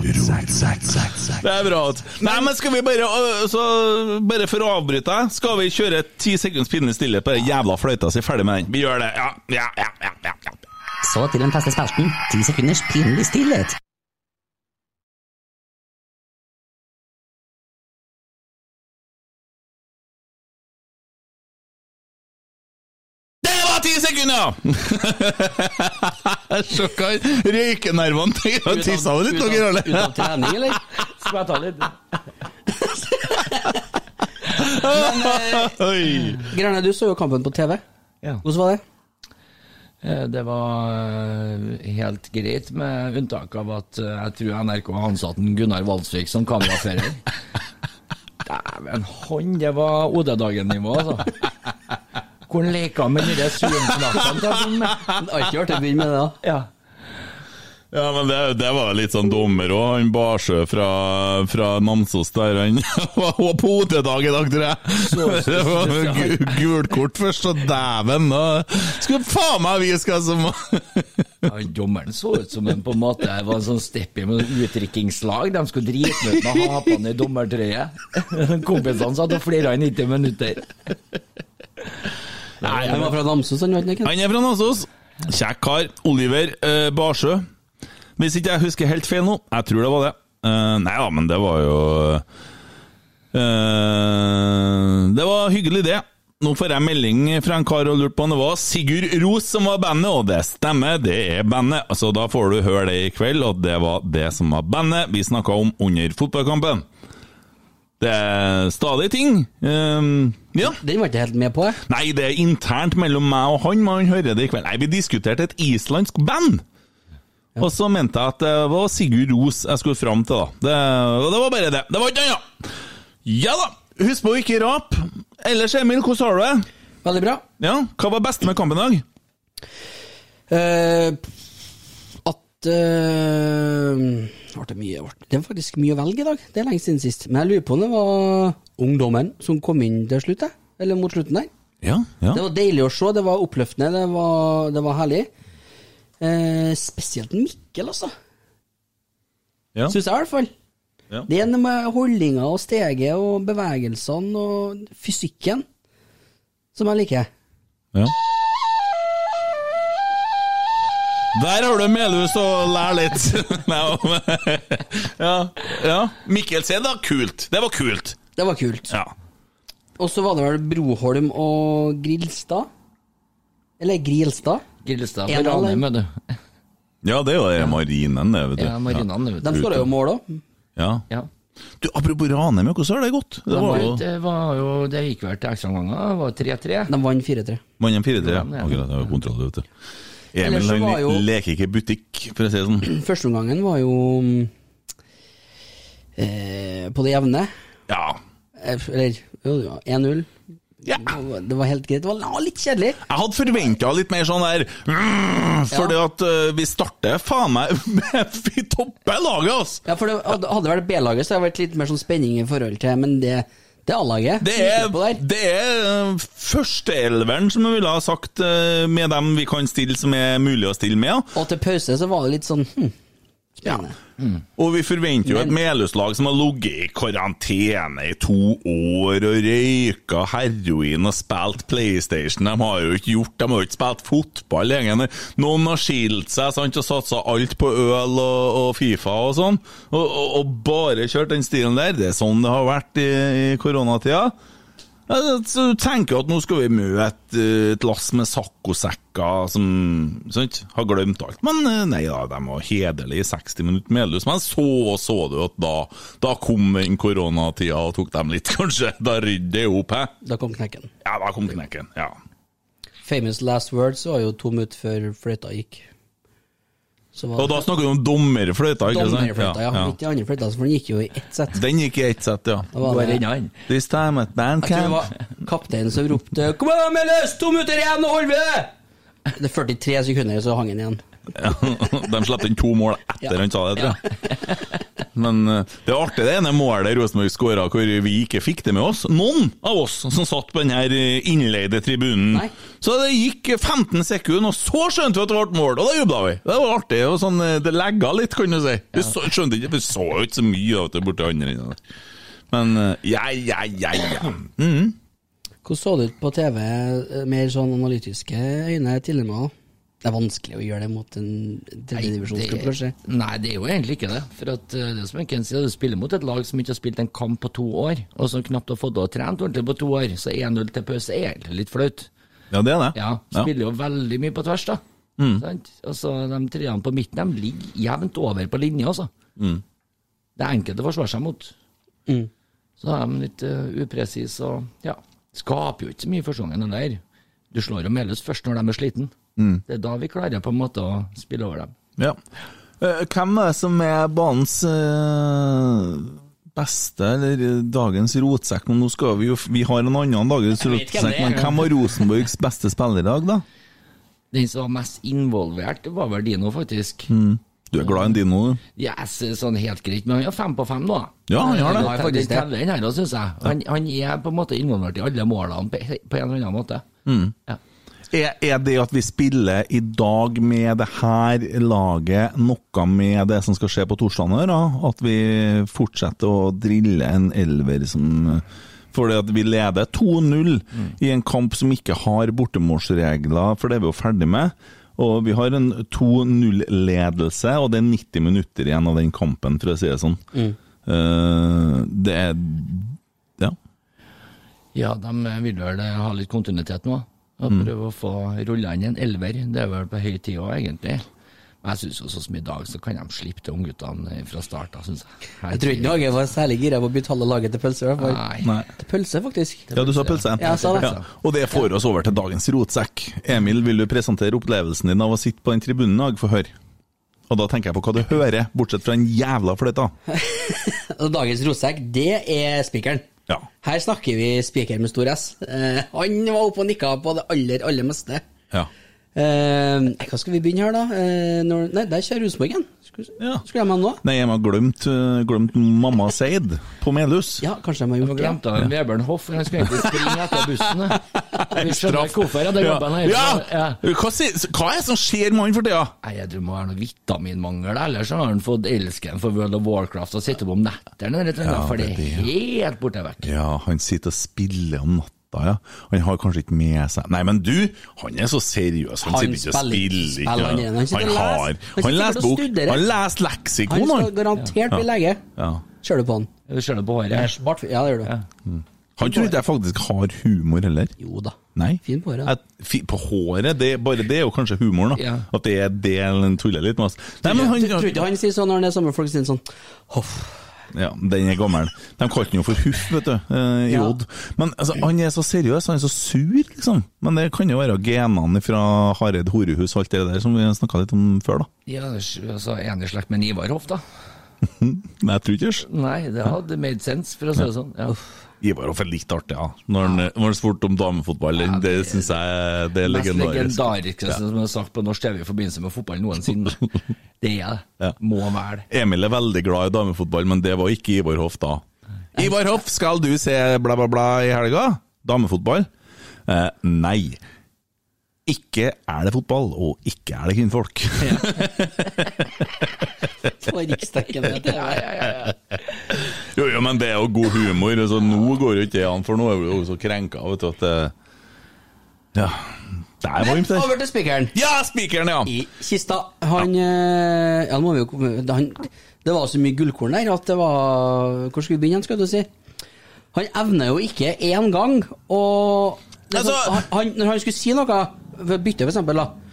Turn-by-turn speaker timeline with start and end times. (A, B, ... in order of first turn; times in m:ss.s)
0:00.2-0:10.5 A
0:11.1-0:13.7 B
0:23.4-0:30.7 A
0:28.6-0:30.8 C
0:31.1-0:32.0 D
0:32.8-0:33.8 C
0:34.5-0:36.4 A
0:34.8-0:35.8 C
0:36.4-0:37.8 C
0:38.4-0:38.8 C
0:40.0-0:47.3 D
0:48.4-0:51.4 D
0:52.5-0:55.0 D
0:53.9-0:54.3 A
0:54.9-0:55.1 A
0:55.2-0:56.4 C
0:56.4-0:56.7 D
0:57.9-1:11.5 A
1:05.0-1:06.6 D
1:11.4-1:20.9 D
1:22.6-1:23.1 D
1:22.6-1:23.0 A
1:22.7-1:24.1 C
1:24.0-1:27.4 A
1:28.2-1:32.2 A
1:33.3-1:46.9 A
1:48.0-1:50.8 A
1:50.6-1:51.8 C
1:51.8-1:56.6 A
1:57.6-2:02.5 A
2:03.2-2:06.7 A
2:07.0-2:07.4 C
2:07.6-2:09.0 A
2:10.5-2:11.2 C
2:12.2-2:21.5 C
2:21.8-2:22.4 A
2:22.3-2:25.3 C
2:26.2-2:28.1 C
2:29.9-2:30.5 C
2:31.3-2:35.6 C
2:36.7-2:37.3 C
2:41.3-2:48.2 A
2:48.4-2:48.9 C
2:50.0-2:52.7 C
2:53.8-2:54.6 C
2:54.8-2:56.2 D
2:55.3-2:55.8 C
2:57.0-2:59.8 A
2:58.6-2:59.8 D
2:59.4-3:00.4 C
3:00.8-3:01.0 A
3:01.8-3:04.0 A
3:03.5-3:06.9 D
3:03.5-3:03.9 C
3:06.9-3:07.6 C
3:07.8-3:09.6 A
3:08.2-3:08.9 D
3:10.3-3:12.9 A
3:10.4-3:11.2 C
3:12.8-3:14.5 C
3:16.2-3:17.5 C
3:17.9-3:18.2 A
3:18.6-3:20.3 C
3:20.8-3:21.1 A
3:20.9-3:23.0 C
3:23.0-3:29.8 A
3:29.8-3:35.2 C
3:34.4-3:41.3 A
3:41.3-3:42.9 C
3:43.6-3:44.0 C
3:44.6-4:04.3 A
3:45.2-3:45.5 C
4:05.1-4:20.1 A
4:20.2-4:20.9 C
4:21.0-4:22.2 A
4:23.0-4:25.9 C
4:27.1-4:27.6 C
4:27.4-4:29.9 A
4:28.9-4:31.6 C
4:31.5-4:32.7 A
4:32.7-4:33.2 C
4:32.8-4:33.5 D
4:33.7-4:35.1 A
4:34.6-4:38.7 C
4:39.3-4:41.0 C
4:41.3-4:44.0 A
4:45.1-5:01.8 A
5:02.5-5:05.0 A
5:05.6-5:09.5 C
5:10.0-5:12.9 C
5:12.0-5:22.1 D
5:22.5-5:23.5 A
5:22.9-5:24.8 D
5:25.2-5:25.4 A
5:25.4-5:29.1 D
5:29.4-5:29.6 A
5:30.4-5:31.5 D
5:32.8-5:37.0 D
5:37.5-5:39.1 D
5:39.4-5:39.6 A
5:39.7-5:41.7 D
5:42.8-5:53.4 A
5:50.6-5:51.7 C
5:54.3-5:57.1 D
5:57.1-5:58.6 A
5:57.8-5:58.1 D
5:58.8-6:06.8 D
6:01.3-6:01.9 A
6:01.4-6:02.5 C
6:07.0-6:07.3 A
6:08.1-6:30.2 A
6:30.8-6:33.6 A
6:34.7-6:41.0 D
6:41.6-6:46.0 D
6:45.5-6:48.2 C
6:48.0-6:48.5 D
6:48.4-6:48.7 A
6:48.8-6:49.7 C
6:49.7-6:51.0 D
6:49.7-6:56.5 A
6:50.4-6:50.9 C
6:57.3-6:59.9 A
7:00.1-7:03.0 C
7:03.6-7:08.2 C
7:09.1-7:14.0 C
7:13.2-7:13.4 A
7:14.0-7:17.4 A
7:17.4-7:18.4 C
7:18.0-7:23.8 D
7:19.7-7:20.0 A
7:21.3-7:25.9 A
7:26.0-7:33.3 D
7:31.4-7:32.3 A
7:33.2-7:44.1 A
7:39.0-7:42.8 C
7:43.7-7:45.2 C
7:45.4-7:45.6 A
7:45.8-7:46.3 C
7:46.5-7:47.3 D
7:47.1-7:48.1 C
7:48.4-7:50.9 A
7:49.0-7:49.3 C
7:51.0-7:52.3 C
7:51.6-7:58.0 A
7:55.0-7:55.2 D
7:57.2-8:00.4 C
8:00.7-8:11.5 A
8:03.7-8:03.9 C
8:11.6-8:13.8 D
8:14.5-8:15.6 A
8:15.7-8:18.0 D
8:18.4-8:24.2 A
8:21.4-8:22.2 D
8:22.8-8:28.7 D
8:28.7-8:31.6 A
8:32.2-8:35.7 A
8:36.2-8:37.2 A
8:38.2-8:42.5 A
8:41.0-8:41.5 C
8:43.4-8:44.9 C
8:44.4-8:45.4 D
8:46.0-8:50.9 A
8:52.1-8:53.7 A
8:53.2-8:54.3 C
8:54.3-8:55.3 A
8:55.2-9:02.3 C
9:03.1-9:09.1 C
9:06.1-9:06.6 A